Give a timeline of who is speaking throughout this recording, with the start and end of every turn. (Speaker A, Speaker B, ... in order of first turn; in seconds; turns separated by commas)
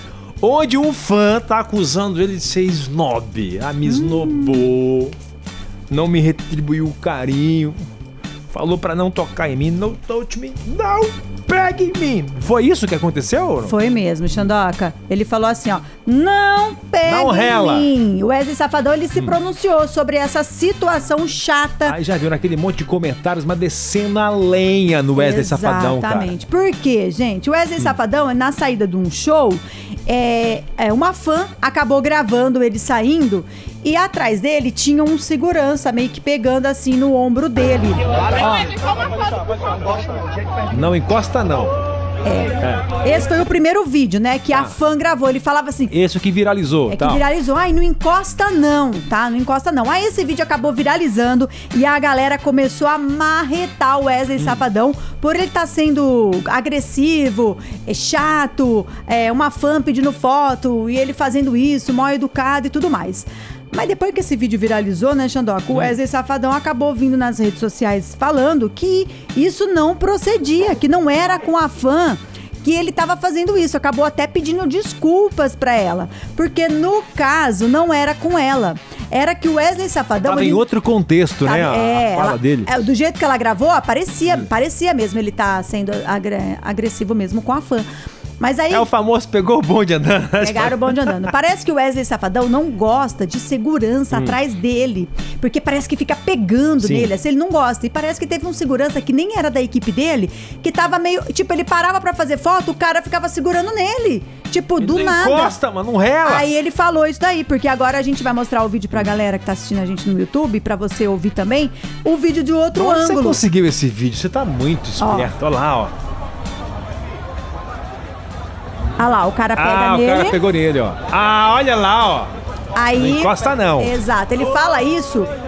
Speaker A: 0.4-5.1, Speaker B: 3.8-4.7, Speaker A: 5.9-7.8, Speaker A: 8.5-13.7, Speaker B: 13.6-22.0, Speaker A: 17.0-17.9, Speaker A: 21.9-26.3, Speaker B: 25.1-38.7, Speaker A: 40.7-41.7, Speaker B: 42.2-45.9, Speaker A: 42.6-42.9, Speaker A: 44.5-44.8, Speaker A: 45.9-47.2, Speaker B: 46.9-80.7, Speaker A: 54.4-54.6, Speaker A: 80.2-82.7, Speaker B: 81.4-87.9, Speaker B: 88.4-88.9, Speaker A: 88.7-91.3, Speaker B: 90.4-105.5, Speaker A: 94.1-94.4, Speaker A: 96.8-97.1, Speaker A: 104.8-106.5, Speaker B: 106.2-113.4, Speaker A: 112.7-115.9, Speaker B: 115.0-115.3, Speaker B: 119.0-120.4, Speaker A: 119.5-122.3, Speaker B: 122.7-125.3, Speaker A: 123.0-123.9